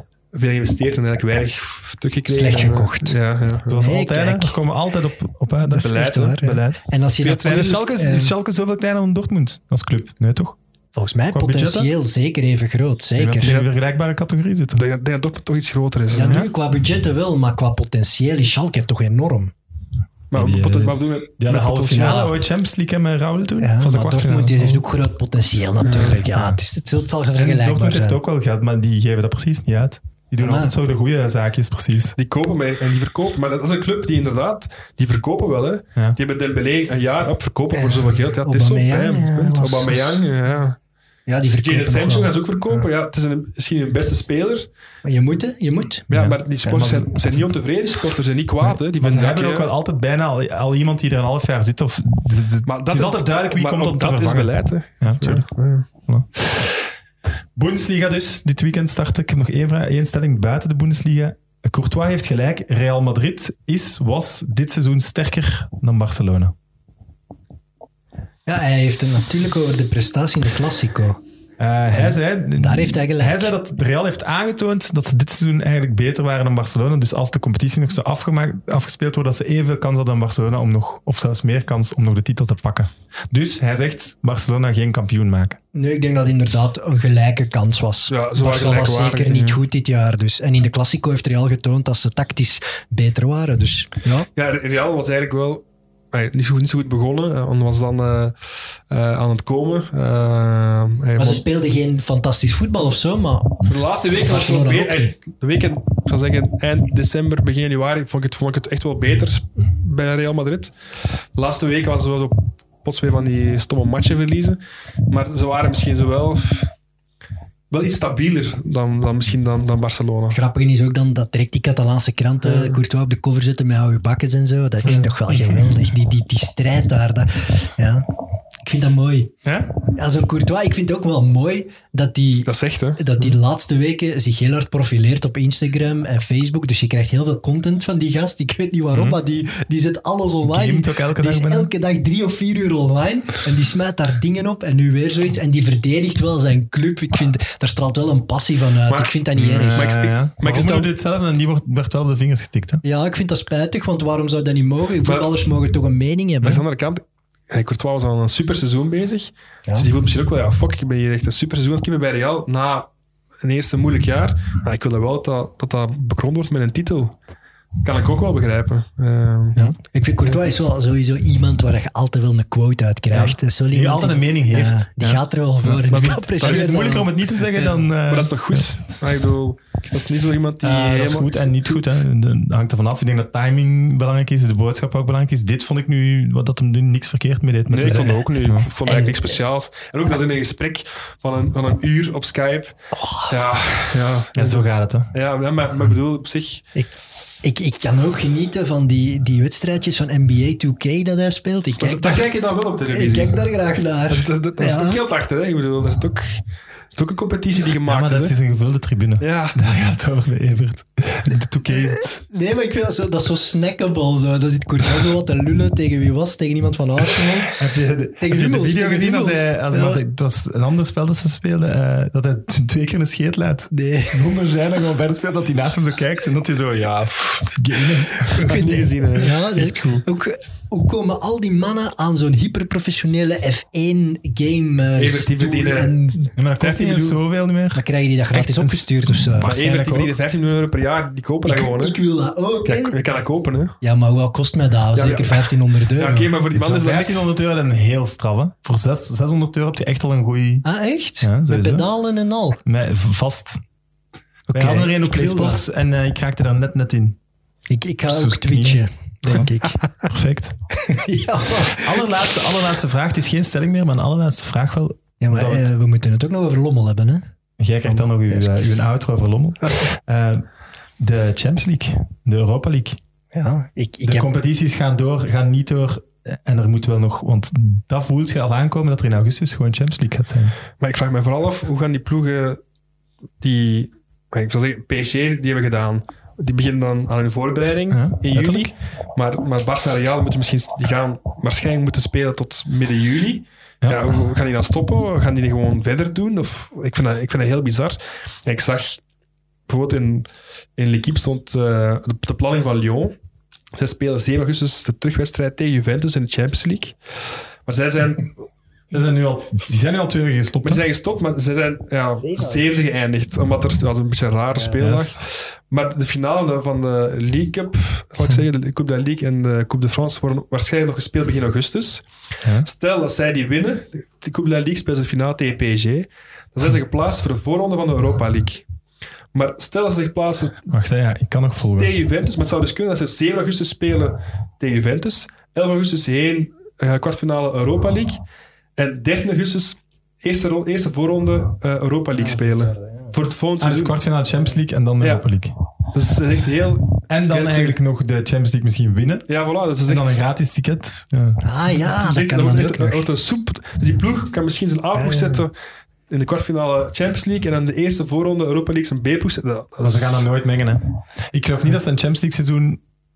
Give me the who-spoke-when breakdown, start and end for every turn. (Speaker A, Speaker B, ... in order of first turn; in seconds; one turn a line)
Speaker A: 0.3-3.7
Speaker B: 2.3-4.5
Speaker C: 3.7-6.0
Speaker B: 5.7-8.3
Speaker A: 5.7-7.8
Speaker C: 7.5-10.6
Speaker B: 10.9-13.6
Speaker C: 11.3-11.9
Speaker C: 13.2-14.8
Speaker A: 13.4-13.7
Speaker A: 14.8-16.4
Speaker B: 16.1-19.5
Speaker A: 20.3-22.3
Speaker C: 20.3-24.8
Speaker B: 21.9-22.3
Speaker B: 23.6-28.2
Speaker A: 25.8-26.2
Speaker C: 26.3-26.6
Speaker C: 27.3-32.2
Speaker B: 30.4-30.7
Speaker A: 32.2-40.8
Speaker B: 37.7-40.2
Speaker B: 41.3-42.8
Speaker A: 41.4-44.7
Speaker B: 45.0-46.1
Speaker A: 46.1-49.7
Speaker C: 46.1-47.5
Speaker C: 48.6-56.9
Speaker A: 52.7-55.9
Speaker C: 57.5-66.5
Speaker B: 68.5-71.2
Speaker C: 71.6-85.6
Speaker B: 71.9-73.5
Speaker B: 85.7-94.3
Speaker A: 88.1-89.6
Speaker A: 94.3-101.4
Speaker B: 101.2-103.6
Speaker A: 103.7-110.7
Speaker B: 104.2-105.1
Speaker A: 111.3-114.6
Speaker A: 115.1-116.7
Speaker A: 117.7-120.4
Speaker B: 120.3-128.1
Speaker A: 122.4-122.8
Speaker C: 125.3-125.6
Speaker B: 128.6-129.3
Speaker C: 129.4-129.7
Speaker B: 129.9-149.9
Speaker A: 132.5-133.3
Speaker C: 138.9-139.2
Speaker C: 140.4-141.7
Speaker A: 148.9-149.1
Speaker C: 149.4-152.8
Speaker A: 149.7-150.9
Speaker B: 152.8-156.6
Speaker A: 155.1-155.3
Speaker A: 156.4-162.9
Speaker A: 163.4-167.2
Speaker A: 167.8-169.7
Speaker B: 169.6-177.8
Speaker C: 173.1-178.7
Speaker A: 175.9-177.0
Speaker A: 178.0-181.8
Speaker C: 180.6-188.7
Speaker A: 187.7-192.8
Speaker B: 188.8-189.4
Speaker B: 192.9-193.3
Speaker A: 193.3-196.7
Speaker C: 194.4-195.1
Speaker B: 197.4-202.3
Speaker A: 201.8-203.4
Speaker B: 202.9-205.0
Speaker A: 204.1-208.4
Speaker C: 207.9-212.2
Speaker A: 209.2-209.7
Speaker B: 212.2-217.6
Speaker C: 217.6-228.8
Speaker B: 218.2-220.0
Speaker B: 223.7-224.4
Speaker A: 227.0-227.4
Speaker A: 228.2-229.4
Speaker B: 229.2-236.2
Speaker C: 229.6-230.1
Speaker A: 235.0-237.2
Speaker C: 236.4-240.1
Speaker B: 237.7-239.5
Speaker A: 239.4-242.0
Speaker B: 241.4-243.0
Speaker A: 242.7-243.8
Speaker B: 243.8-246.3
Speaker A: 244.9-247.3
Speaker C: 246.5-250.7
Speaker B: 250.7-252.6
Speaker C: 251.2-251.9
Speaker C: 252.6-253.6
Speaker C: 254.5-257.2
Speaker B: 254.5-255.7
Speaker B: 257.7-259.8
Speaker C: 258.1-260.6
Speaker B: 260.7-262.2
Speaker C: 261.7-265.7
Speaker B: 265.2-267.2
Speaker C: 267.6-273.0
Speaker B: 268.3-268.8
Speaker B: 273.3-274.3
Speaker C: 274.1-280.6
Speaker A: 280.8-282.6
Speaker A: 283.4-299.0
Speaker C: 287.9-288.7
Speaker C: 293.8-294.1
Speaker A: 299.7-303.1
Speaker A: 303.8-308.3
Speaker C: 308.9-310.8
Speaker A: 310.6-322.1
Speaker B: 312.2-312.9
Speaker C: 314.8-315.2
Speaker A: 322.6-328.7
Speaker A: 329.3-330.7
Speaker C: 330.7-331.9
Speaker A: 331.8-338.2
Speaker A: 338.8-344.0
Speaker B: 342.2-343.1
Speaker C: 343.6-345.6
Speaker A: 345.0-345.2
Speaker A: 345.9-347.8
Speaker C: 347.1-349.3
Speaker A: 349.3-350.2
Speaker C: 349.9-351.4
Speaker B: 351.4-353.1
Speaker A: 351.7-355.5
Speaker B: 354.9-355.4
Speaker A: 356.1-360.3
Speaker C: 359.8-362.8